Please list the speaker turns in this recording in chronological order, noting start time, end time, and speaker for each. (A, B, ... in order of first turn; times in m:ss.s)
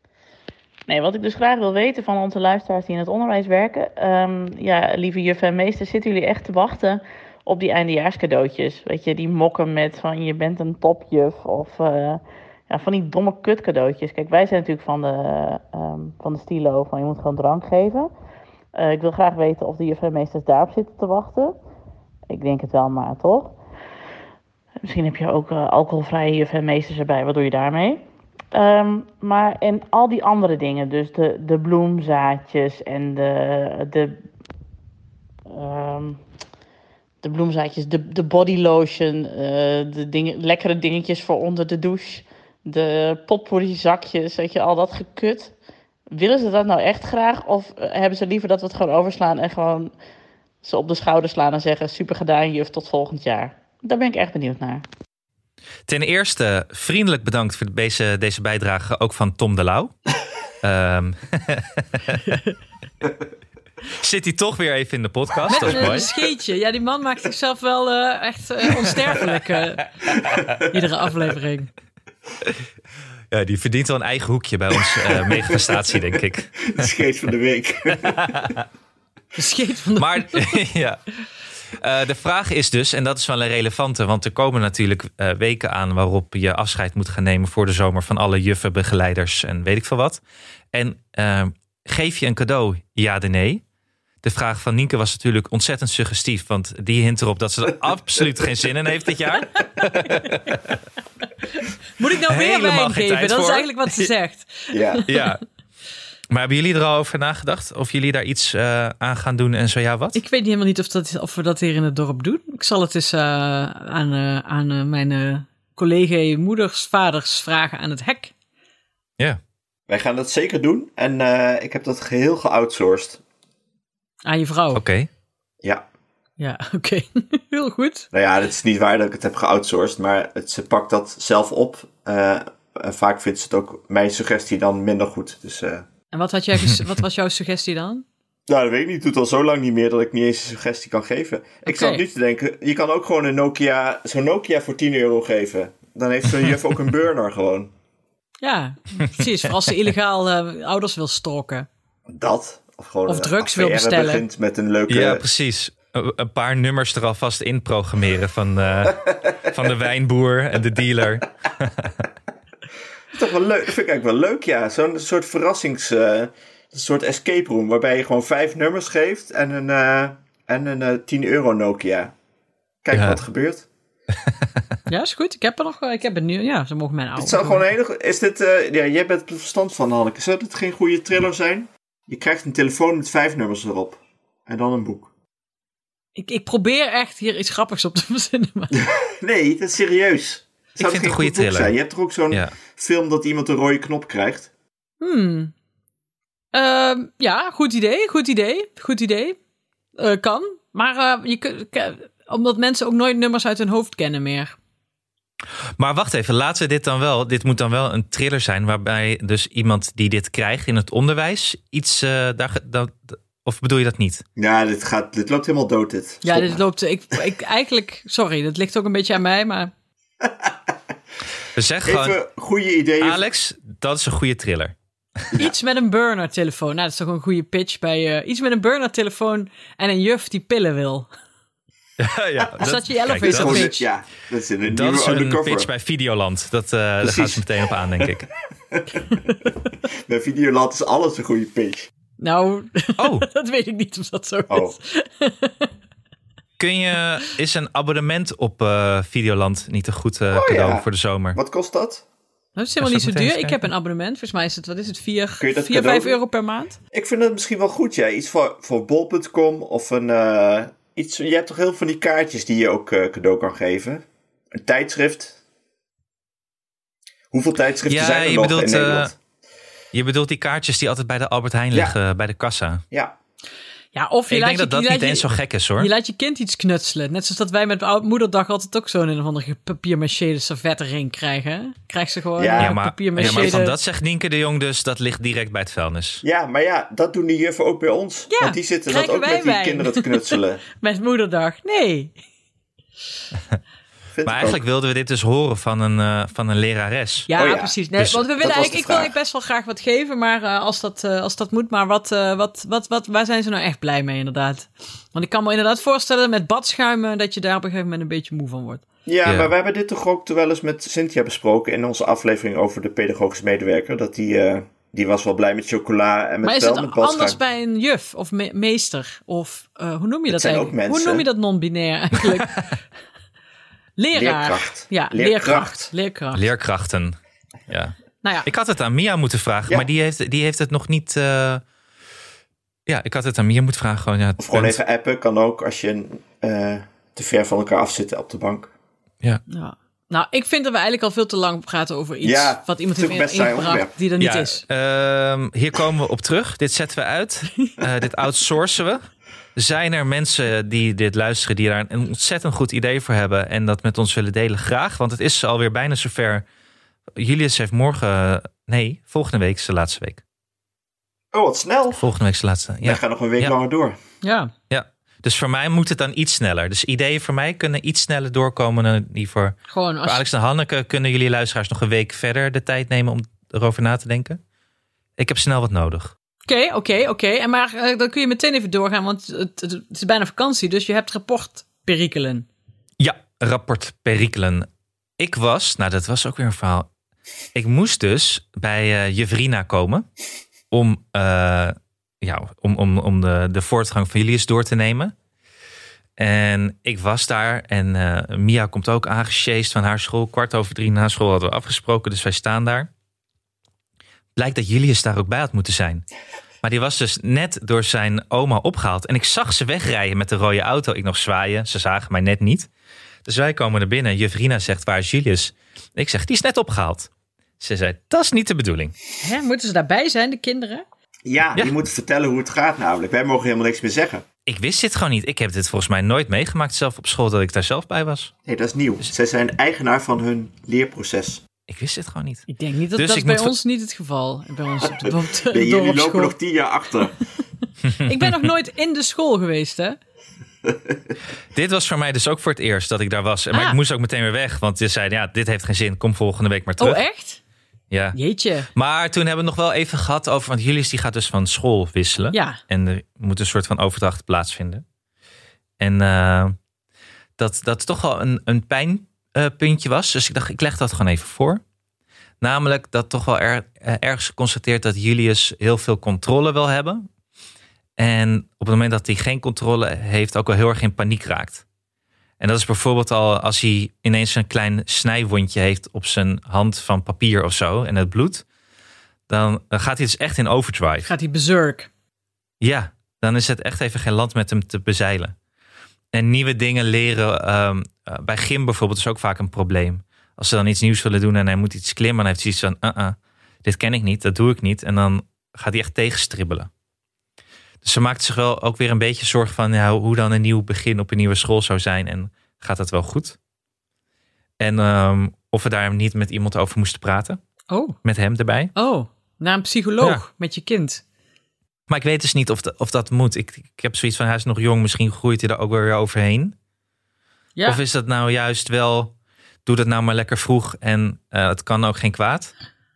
0:00.9-0:18.1 A
0:18.7-0:21.5 A
0:22.3-0:23.6 A
0:24.8-0:34.2 A
0:35.5-0:36.2 A
0:37.2-0:45.5 A
0:46.1-0:49.9 A
0:50.6-0:54.8 A
0:55.9-0:59.9 B
1:00.6-1:02.2 B
1:02.2-1:02.5 C
1:03.9-1:06.1 B
1:05.5-1:09.9 C
1:10.3-1:10.6 D
1:10.6-1:11.7 C
1:13.3-1:16.8 B
1:14.8-1:18.5 D
1:18.2-1:18.6 B
1:19.3-1:20.6 C
1:20.0-1:21.0 B
1:21.7-1:30.2 B
1:30.7-1:33.6 B
1:34.2-1:40.7 B
1:40.0-1:40.3 C
1:41.6-1:45.3 C
1:42.3-1:44.1 B
1:44.7-1:45.0 D
1:45.1-1:45.4 B
1:46.3-1:50.2 B
1:50.1-1:58.3 C
1:59.9-2:03.2 D
2:04.2-2:04.8 C
2:04.7-2:05.1 B
2:06.4-2:08.1 C
2:08.1-2:15.9 D
2:16.1-2:18.0 C
2:18.5-2:27.7 D
2:21.6-2:22.0 C
2:28.4-2:31.7 C
2:32.1-2:35.2 D
2:33.1-2:34.2 C
2:34.9-2:41.9 B
2:43.1-2:52.1 D
2:52.8-2:53.6 D
2:54.9-2:57.6 C
2:57.2-3:05.1 D
3:06.2-3:08.8 C
3:08.7-3:14.5 D
3:10.8-3:11.7 B
3:15.0-3:15.5 C
3:16.5-3:19.4 C
3:20.0-3:24.6 C
3:25.8-3:34.2 B
3:34.4-3:36.6 D
3:36.2-3:39.7 C
3:40.2-3:40.7 D
3:41.5-3:42.2 B
3:41.8-3:43.2 D
3:43.0-3:44.7 B
3:45.3-3:51.1 C
3:52.0-3:53.7 B
3:52.6-3:53.8 C
3:53.2-3:55.7 D
3:54.7-3:58.3 B
3:57.0-3:57.5 D
3:58.7-3:59.1 D
3:59.9-4:01.9 D
4:02.2-4:05.7 C
4:03.0-4:03.2 B
4:04.5-4:04.8 D
4:06.6-4:11.4 B
4:10.3-4:12.0 D
4:12.6-4:16.8 C
4:12.8-4:13.6 B
4:15.4-4:16.2 D
4:16.9-4:25.4 D
4:27.3-4:29.1 D
4:27.9-4:29.1 B
4:29.9-4:32.8 B
4:32.9-4:33.2 D
4:33.9-4:35.3 C
4:34.3-4:35.9 B
4:35.8-4:43.8 C
4:42.4-4:43.6 D
4:42.6-4:46.2 B
4:46.2-4:50.6 D
4:48.3-4:52.1 C
4:54.1-4:54.6 D
4:54.2-4:57.3 B
4:57.3-5:08.8 C
4:57.4-4:59.1 D
5:09.0-5:17.4 D
5:09.2-5:09.5 B
5:16.4-5:22.7 C
5:20.3-5:21.2 D
5:24.0-5:26.4 C
5:24.1-5:25.9 D
5:26.3-5:27.2 B
5:27.7-5:31.6 B
5:32.9-5:34.8 B
5:34.4-5:38.7 D
5:39.5-5:44.6 C
5:42.2-5:43.9 D
5:44.2-5:49.0 B
5:49.6-5:56.4 B
5:57.2-6:00.2 B
6:01.3-6:02.1 D
6:02.0-6:03.5 B
6:02.8-6:04.0 D
6:04.2-6:04.5 C
6:04.7-6:14.4 B
6:09.7-6:10.2 C
6:15.2-6:16.1 B
6:16.4-6:22.5 C
6:23.0-6:24.7 B
6:25.2-6:26.9 B
6:27.5-6:30.0 B
6:30.7-6:35.1 B
6:36.2-6:42.9 B
6:44.4-6:46.0 B
6:46.6-6:52.7 B
6:53.2-6:57.1 B
6:57.6-6:59.0 B
6:59.2-7:00.8 C
7:01.2-7:04.2 D
7:04.4-7:08.3 B
7:08.4-7:11.4 D
7:11.7-7:13.5 B
7:12.5-7:16.3 C
7:14.8-7:17.2 D
7:17.9-7:18.5 B
7:17.9-7:20.0 C
7:21.5-7:27.0 B
7:23.5-7:23.8 C
7:26.8-7:27.4 C
7:27.9-7:28.2 B
7:28.1-7:28.7 C
7:28.7-7:34.8 B
7:32.3-7:32.6 C
7:35.8-7:36.5 B
7:37.4-7:41.6 B
7:42.4-7:47.0 B
7:48.0-7:51.6 B
7:52.4-7:58.4 B
7:59.3-8:01.1 B
8:01.0-8:01.9 C
8:02.6-8:05.3 B
8:06.1-8:16.7 B
8:17.8-8:23.4 B
8:24.6-8:27.4 B
8:27.7-8:28.0 C
8:28.0-8:28.7 B
8:28.7-8:31.0 C
8:31.9-8:36.5 B
8:37.6-8:39.1 B
8:39.6-8:42.5 B